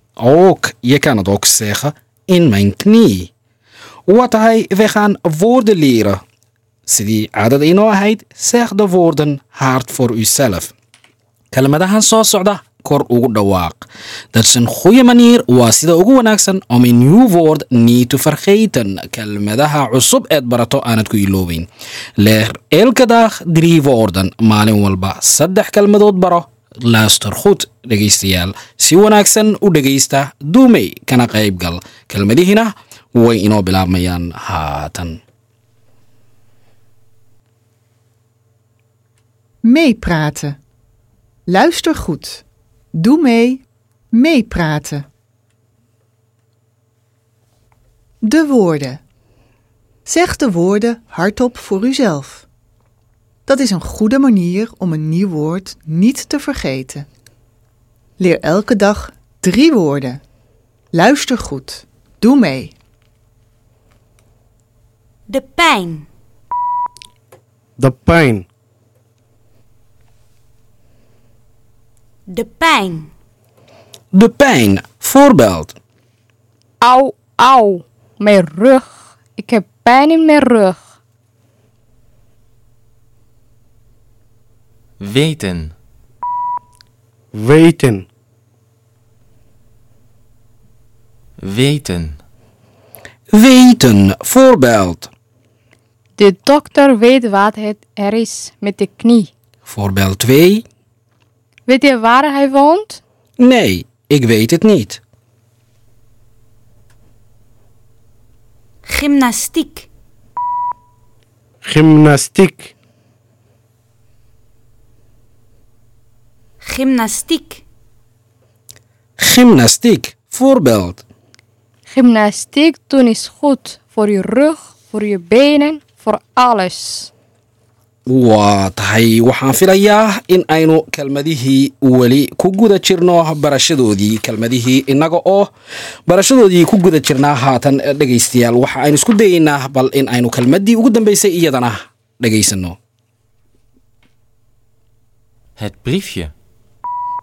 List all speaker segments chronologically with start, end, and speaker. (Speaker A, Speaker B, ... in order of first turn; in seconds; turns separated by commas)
Speaker A: 0.2-3.3, Speaker A: 4.1-6.2, Speaker A: 6.9-10.7, Speaker A: 11.5-21.7, Speaker A: 22.2-35.2, Speaker B: 39.6-40.6, Speaker B: 41.5-42.4, Speaker B: 42.9-45.0, Speaker B: 48.2-49.0, Speaker B: 50.0-52.4, Speaker B: 53.5-57.0, Speaker B: 58.2-60.2, Speaker B: 60.9-62.7, Speaker C: 65.3-66.1, Speaker D: 67.8-68.5, Speaker C: 72.3-73.1, Speaker A: 74.1-75.7, Speaker E: 76.8-80.8, Speaker F: 85.0-85.7, Speaker D: 87.3-88.1, Speaker F: 91.4-92.2, Speaker A: 93.3-95.1, Speaker E: 96.2-99.3, Speaker A: 99.7-100.6, Speaker E: 101.7-103.0, Speaker A: 103.4-105.0, Speaker C: 108.8-109.9, Speaker D: 111.6-112.7, Speaker C: 116.6-117.6, Speaker A: 119.2-121.0, Speaker E: 121.9-127.1, Speaker A: 128.1-135.5, Speaker A: 136.1-142.8, Speaker F: 145.6-146.3